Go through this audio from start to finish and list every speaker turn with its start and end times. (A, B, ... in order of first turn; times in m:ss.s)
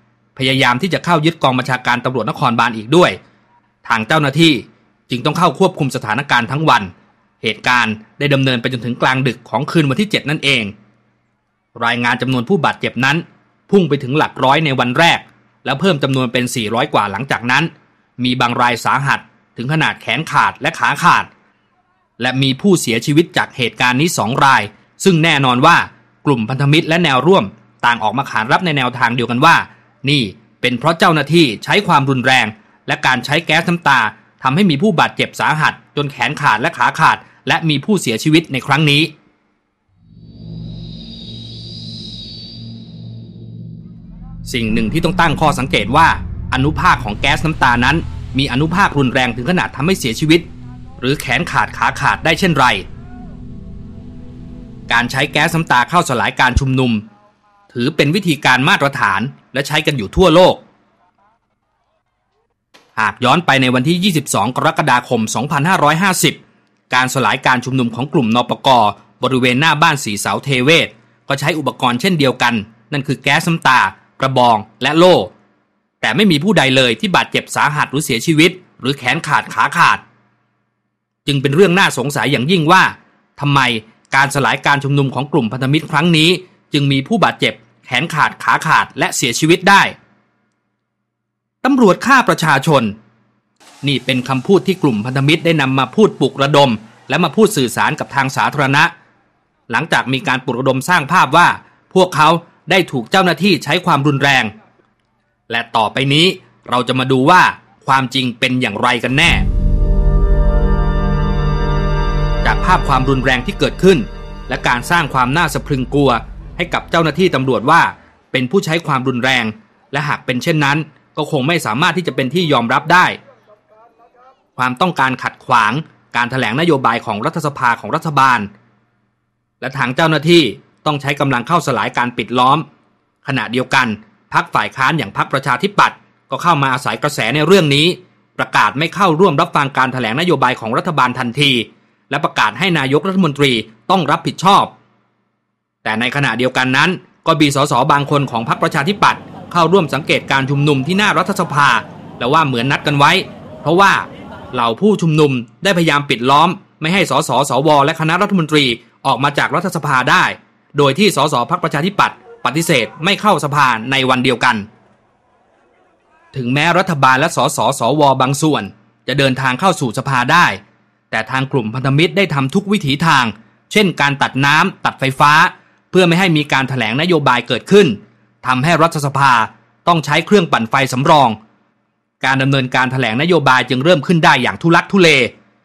0:00.3-0:03.2 A
0:03.8-0:06.9 A
0:07.4-0:10.7 A
0:11.7-0:21.3 A
0:22.2-0:39.1 A
0:44.4-0:50.4 A
0:51.0-0:52.8 A
0:54.9-0:57.0 A
0:57.7-1:00.6 A
1:03.0-1:06.4 A
1:06.9-1:15.3 A
1:16.0-1:20.0 A
1:21.2-1:29.9 A
1:31.6-1:32.9 A
1:33.8-1:38.9 A
1:39.7-1:44.5 A
1:45.5-1:49.5 A
1:52.4-2:03.2 A
2:04.6-2:08.5 A
2:09.6-2:12.6 A
2:13.2-2:24.7 A
2:25.8-2:44.6 A
2:46.3-2:50.6 A
2:51.1-3:01.4 A
3:02.2-3:05.3 A